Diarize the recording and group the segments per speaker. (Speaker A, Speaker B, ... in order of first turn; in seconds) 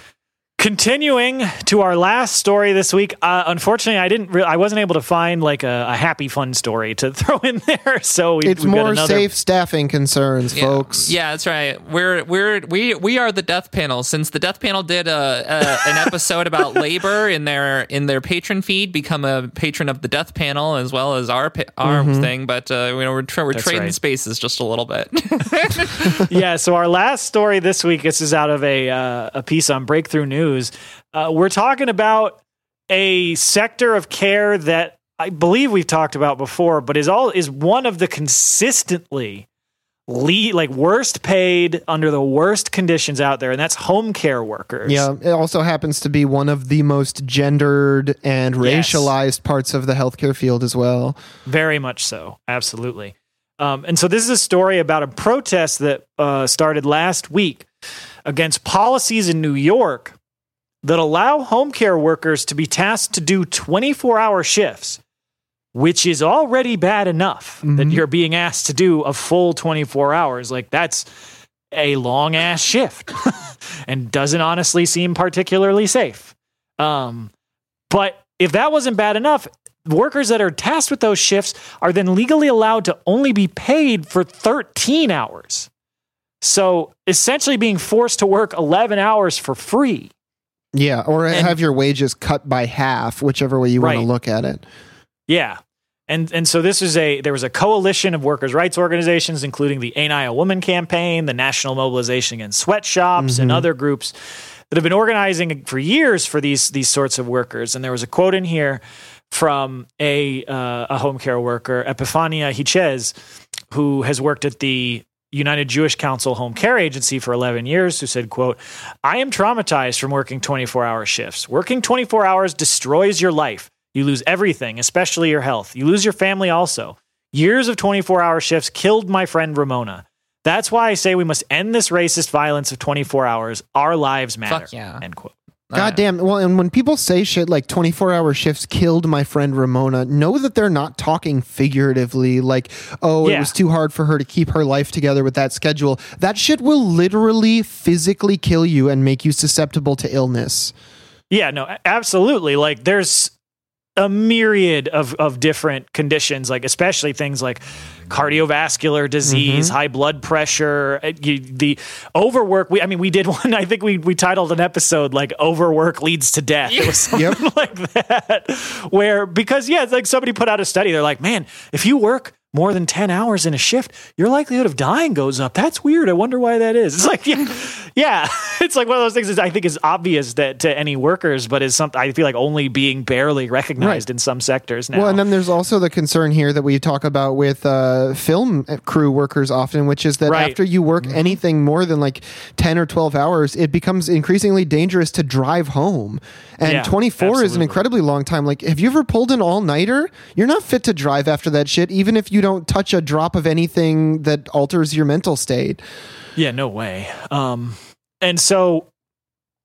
Speaker A: 0.6-9.3, 23.5-23.9, 26.3-39.5, 40.1-45.1, 48.6-49.1, 51.5-57.7, 58.3-60.2, 60.8-65.0, 65.7-71.1, 71.7-77.3, 77.9-85.7, 86.4-90.1, 91.3-91.6, 93.8-94.1, 95.3-104.1, 104.7-113.1, 113.7-135.3, 143.2-143.5, 151.3-153.3, 154.0-185.2, 190.3-191.3, 196.6-197.8, 206.4-208.9
Speaker B: 8.4-11.1, 21.8-22.3, 44.9-51.2, 67.6-68.0, 90.8-94.6, 103.2-103.7, 135.8-150.7, 159.2-159.8, 167.1-167.4, 183.8-184.0, 184.9-205.8
Speaker C: 10.5-26.3, 134.5-135.0, 135.7-136.0, 166.7-167.2